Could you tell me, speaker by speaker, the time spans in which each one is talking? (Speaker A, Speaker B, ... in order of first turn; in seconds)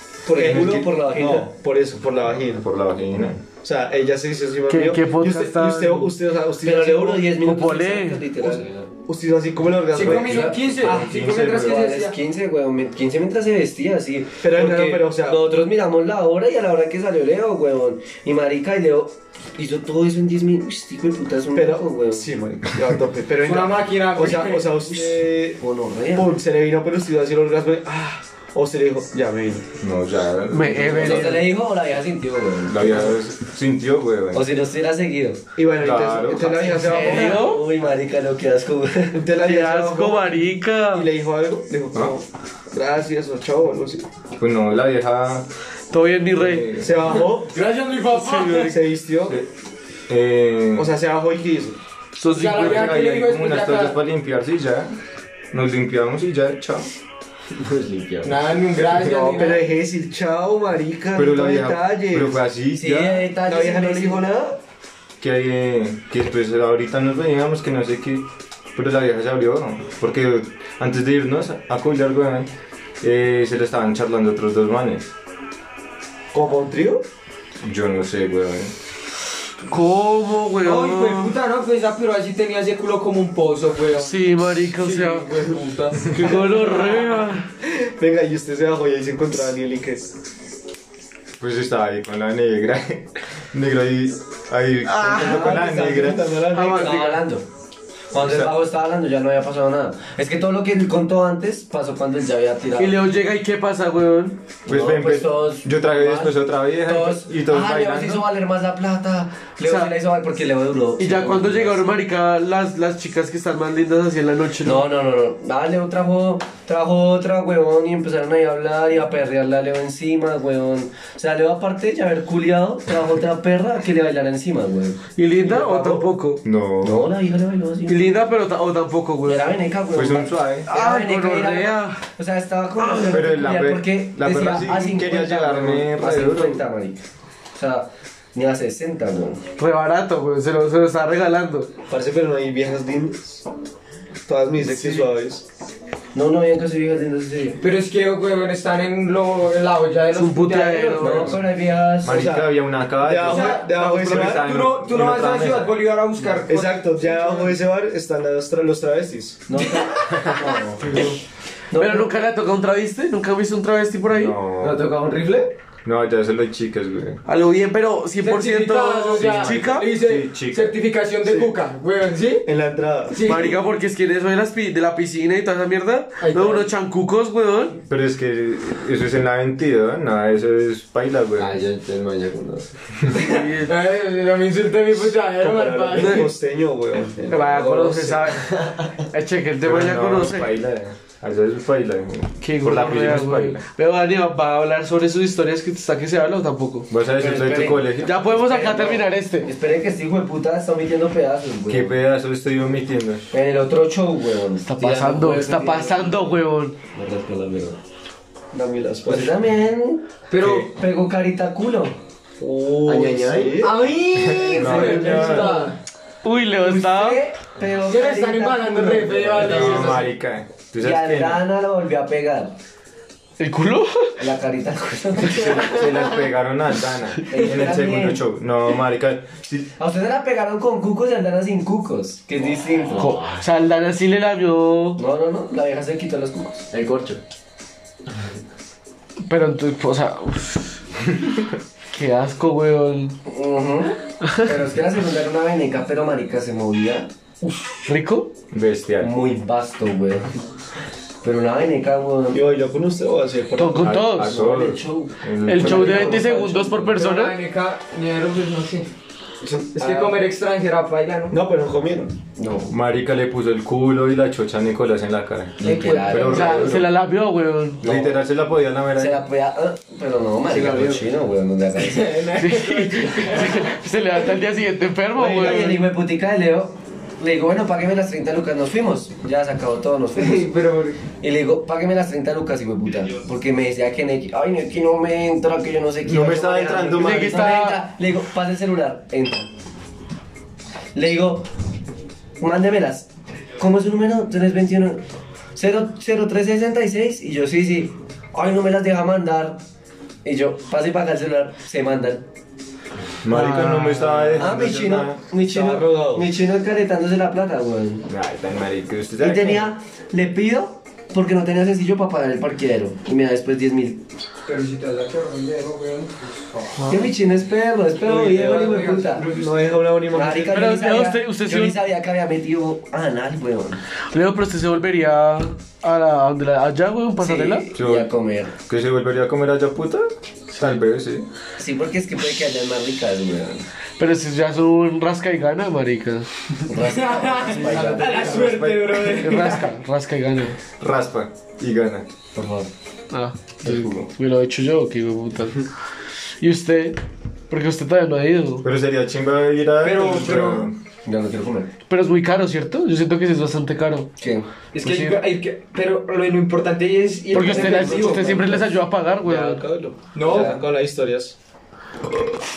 Speaker A: 0.2-1.5, 6.6-8.9, 9.9-22.3, 25.6-26.3, 31.0-33.1, 34.3-35.5, 36.3-39.2, 62.8-64.2, 95.3-97.5, 98.1-103.0, 104.7-111.8, 114.6-126.1, 126.8-128.1, 129.2-137.0, 137.6-139.4, 146.1-147.6, 150.4-152.3, 159.5-161.1, 161.7-162.1, 197.2-201.9, 203.3-206.4, 206.9-207.8, 209.1-211.9, 214.5-215.7, 217.5-220.0, 220.8-222.5, 224.2-226.1, 227.3-228.2, 229.8-233.1, 235.0-236.7, 243.3-247.8, 249.0-250.3, 251.2-252.5, 254.3-256.9, 262.4-262.7, 265.6-266.8, 268.9-272.2, 275.1-280.6, 281.2-289.5, 290.9-291.5, 292.4-295.0, 295.6-299.6, 300.2-302.3, 304.4-308.1, 309.2-314.0, 316.9-319.2, 320.1-323.8, 327.2-328.5, 331.6-333.7, 336.6-338.5, 342.3-342.7, 351.0-351.7, 354.2-354.5, 360.2-360.6
Speaker B: 0.3-2.6, 3.6-7.3, 8.4-10.8, 14.4-15.5, 21.5-29.7, 35.5-37.6, 39.1-44.0, 46.8-47.5, 48.7-49.4, 50.7-51.8, 59.0-62.4, 63.4-64.6, 76.3-77.0, 87.6-90.1, 95.1-97.1, 141.9-143.4, 144.3-145.4, 152.1-154.5, 156.4-159.5, 171.2-171.5, 172.4-173.4, 185.3-188.5, 208.5-209.4, 212.4-213.9, 214.6-215.6, 252.3-254.0, 259.4-260.2, 261.3-262.1, 305.4-306.3, 318.0-318.7, 319.2-320.7, 357.3-358.4, 359.2-361.4
Speaker C: 0.4-0.8, 2.4-3.4, 10.8-12.0, 29.8-31.5, 32.7-34.5, 35.8-36.6, 44.4-45.5, 46.4-47.0, 50.1-50.9, 52.5-54.9, 55.5-56.9, 61.1-63.2, 65.2-72.5, 73.0-75.1, 77.6-78.7, 91.4-96.3, 98.1-98.5, 104.7-108.3, 126.4-127.1, 129.9-130.7, 133.1-136.7, 152.0-155.8, 160.1-160.9, 164.1-164.9, 165.8-167.2, 169.2-170.8, 177.8-181.6, 189.6-193.6, 196.9-198.2, 201.7-203.2, 210.3-210.7, 214.1-215.7, 219.3-221.4, 225.2-229.7, 248.5-249.1, 253.8-256.2, 262.7-266.9, 267.8-269.2, 286.0-287.5, 303.2-305.2, 308.1-309.7, 327.7-328.1, 328.7-331.3, 338.0-339.4, 340.8-342.1, 343.6-344.1, 348.6-350.8
Speaker D: 4.7-6.2, 7.4-8.2, 30.5-31.5, 36.8-37.6, 39.4-41.1, 45.9-47.1, 48.1-48.8, 52.2-53.0, 79.7-81.3, 84.0-85.5, 86.1-87.5, 94.8-95.5, 96.5-97.3, 102.7-104.4, 109.6-109.9, 111.0-114.9, 125.2-126.4, 127.9-129.6, 130.7-132.1, 132.8-133.2, 139.6-141.7, 150.1-151.4, 161.7-164.3, 167.2-169.9, 173.2-177.8, 183.1-183.7, 185.9-186.3, 187.2-190.6, 192.4-199.5, 204.6-206.8, 216.2-217.2, 223.4-224.2, 232.9-235.0, 239.3-240.8, 241.9-243.2, 247.8-248.3, 253.6-254.3, 255.4-257.4, 266.1-267.8, 272.3-275.9, 287.0-287.8, 316.8-317.0, 320.5-321.8, 324.1-327.6, 334.0-336.3, 339.1-340.6, 343.1-345.7, 346.4-348.7, 351.9-354.1, 354.8-355.2, 357.3-359.6
Speaker E: 9.9-12.2, 23.4-25.2, 47.5-48.8, 52.3-54.0, 58.2-59.7, 80.6-86.6, 144.7-145.0, 147.6-151.2, 153.2-157.5, 159.6-160.3, 168.2-172.5, 173.1-173.6, 176.2-176.7, 183.1-186.3, 210.3-210.7, 213.6-215.8, 216.6-220.1, 256.9-258.9, 259.7-261.4, 265.6-266.2, 270.5-271.0, 271.8-273.7, 280.1-281.0, 314.4-316.9, 318.1-319.9, 336.8-339.7, 349.8-350.7, 354.7-358.6, 360.1-360.6
Speaker F: 57.5-58.5, 164.6-165.5, 181.4-182.7, 212.8-213.7, 232.9-233.4, 236.7-237.2